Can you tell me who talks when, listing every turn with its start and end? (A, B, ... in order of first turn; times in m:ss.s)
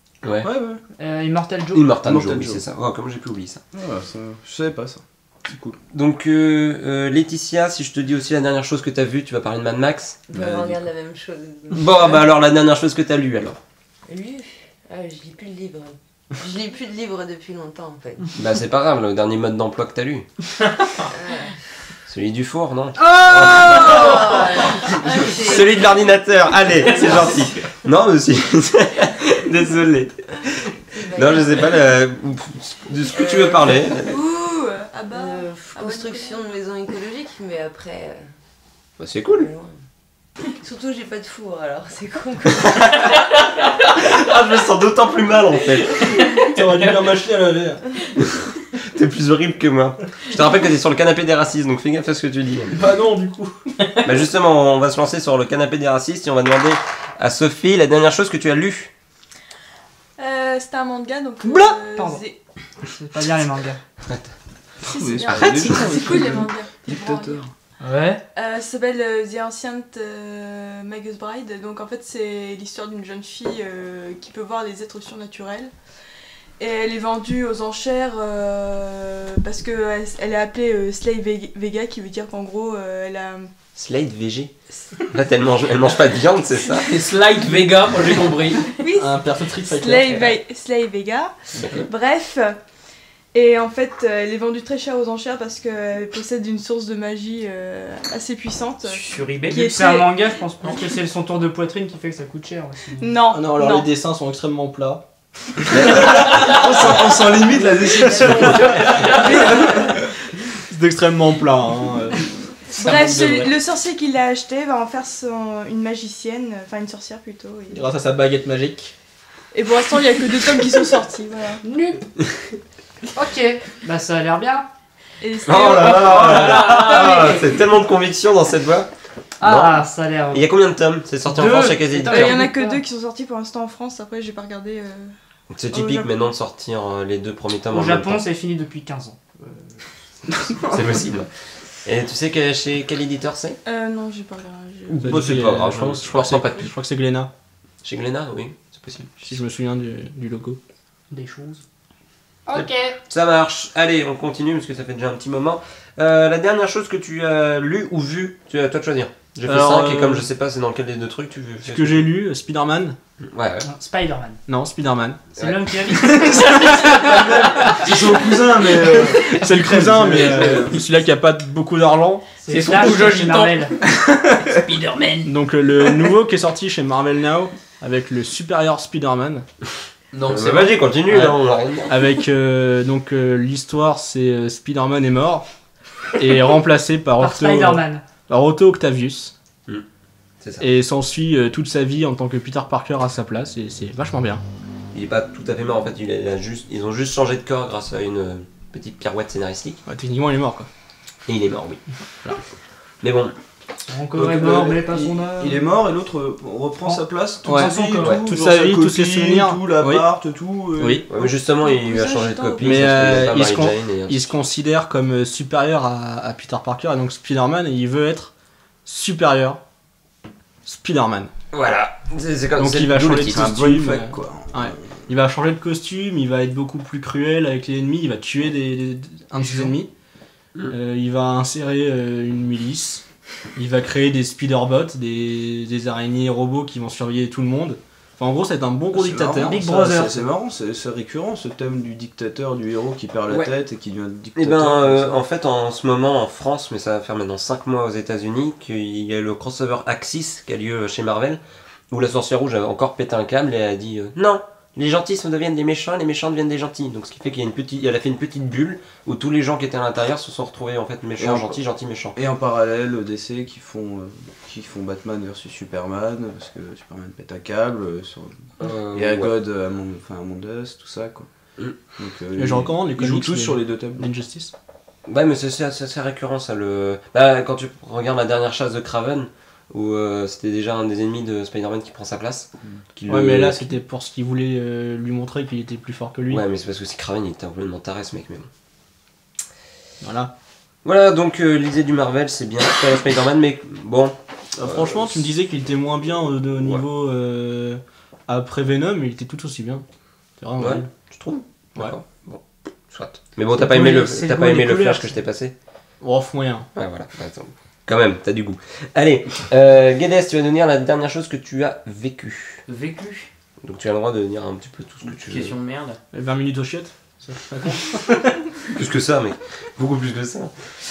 0:00.2-0:00.5 A
0:00.4-0:00.8 B
0:01.0-0:01.8 C
0:01.7-0:03.6 A
0:02.0-0:02.6 B
0:03.7-0:05.8 B
0:05.9-0:10.4 A
0:10.3-0:12.3 D
0:10.4-0:10.8 B
0:11.7-0:13.6 A
0:14.1-0:18.4 D
0:18.4-0:20.3 A
0:21.1-0:21.5 D
0:22.1-0:30.2 A
0:23.2-0:26.1 D
0:26.6-0:27.5 D
0:27.0-0:27.4 E
0:30.9-0:31.9 D
0:31.1-0:34.1 A
0:33.1-0:34.0 D
0:34.0-0:36.4 F
0:35.1-0:38.3 D
0:39.0-0:39.5 A
0:39.3-0:39.8 D
0:40.6-0:43.0 D
0:42.6-0:42.9 A
0:43.9-0:46.2 A
0:46.4-0:47.9 G
0:48.2-0:52.8 A
0:52.7-0:53.6 G
0:54.0-0:58.9 A
1:00.2-1:02.4 F
1:01.4-1:02.2 C
1:02.8-1:03.8 C
1:04.1-1:04.3 A
1:04.8-1:07.5 F
1:05.0-1:07.5 B
1:07.8-1:08.2 C
1:08.4-1:15.7 F
1:16.6-1:23.5 F
1:23.8-1:26.9 A
1:26.8-1:28.8 E
1:28.8-1:32.6 F
1:29.0-1:30.3 G
1:31.6-1:31.9 A
1:33.3-1:40.4 F
1:38.9-1:39.6 E
1:39.5-1:43.2 C
1:43.0-1:43.9 F
1:43.3-1:45.0 G
1:45.6-1:46.5 G
1:45.7-1:48.6 B
1:46.2-1:46.5 E
1:46.7-1:49.7 D
1:48.2-1:48.6 G
1:48.4-1:49.5 E
1:49.2-1:50.0 F
1:50.7-1:53.0 G
1:52.7-1:57.8 F
1:52.8-1:53.5 E
1:57.7-1:59.0 G
1:59.5-2:01.6 F
2:01.6-2:02.1 C
2:03.1-2:04.7 C
2:05.2-2:07.4 F
2:05.5-2:08.9 A
2:05.8-2:07.4 E
2:09.4-2:10.4 C
2:09.4-2:12.4 A
2:11.2-2:12.8 C
2:12.1-2:15.1 F
2:15.5-2:18.2 A
2:15.7-2:16.1 F
2:17.7-2:19.6 C
2:20.3-2:20.7 C
2:20.6-2:21.3 A
2:21.8-2:23.6 A
2:23.6-2:25.2 F
2:24.9-2:26.7 A
2:25.0-2:27.3 G
2:27.8-2:29.3 A
2:29.2-2:30.6 G
2:31.1-2:31.6 C
2:32.5-2:33.0 C
2:32.5-2:42.1 A
2:39.4-2:40.3 G
2:41.6-2:43.0 G
2:43.2-2:43.7 A
2:43.6-2:44.4 C
2:44.5-2:45.2 G
2:45.4-2:45.6 A
2:45.4-2:47.6 C
2:46.0-2:47.8 G
2:46.7-2:47.9 E
2:47.8-2:50.8 B
2:48.8-2:53.0 G
2:50.1-2:50.6 E
2:52.4-2:53.7 C
2:52.5-2:53.8 E
2:54.4-2:55.3 E
2:55.2-2:59.4 G
3:00.1-3:00.8 E
3:00.2-3:02.0 A
3:01.1-3:01.4 G
3:01.9-3:05.5 G
3:06.1-3:09.3 G
3:07.2-3:08.0 C
3:10.4-3:10.6 A
3:10.6-3:14.4 G
3:14.9-3:19.8 A
3:19.9-3:20.7 G
3:21.3-3:21.8 A
3:23.0-3:23.4 A
3:23.9-3:25.7 C
3:24.1-3:31.0 B
3:26.8-3:28.2 C
3:27.4-3:30.1 G
3:30.8-3:31.1 G
3:31.1-3:34.4 A
3:31.2-3:32.9 F
3:32.6-3:38.3 G
3:38.8-3:39.6 G
3:40.6-3:41.3 G
3:41.5-3:43.5 A
3:42.6-3:49.9 G
3:43.3-3:44.9 B
3:50.7-3:53.0 G
3:53.6-3:59.6 G
3:58.9-4:05.2 B
3:59.4-4:00.2 C
4:04.4-4:22.2 A
4:21.2-4:21.6 B
4:22.1-4:31.3 B
4:28.6-4:29.4 A
4:32.0-4:34.0 B
4:32.4-4:34.5 G
4:35.1-4:43.8 A
4:43.1-4:46.4 G
4:46.3-4:48.5 A
4:50.0-4:50.3 G
4:50.8-4:55.3 A
4:54.6-4:59.8 G
4:56.6-4:56.8 A
5:00.4-5:00.9 G
5:00.6-5:05.5 A
5:03.5-5:05.2 C
5:06.0-5:06.7 G
5:06.8-5:12.6 A
5:12.7-5:13.3 E
5:13.6-5:15.5 A
5:15.1-5:16.0 E
5:16.1-5:18.5 G
5:18.7-5:20.5 A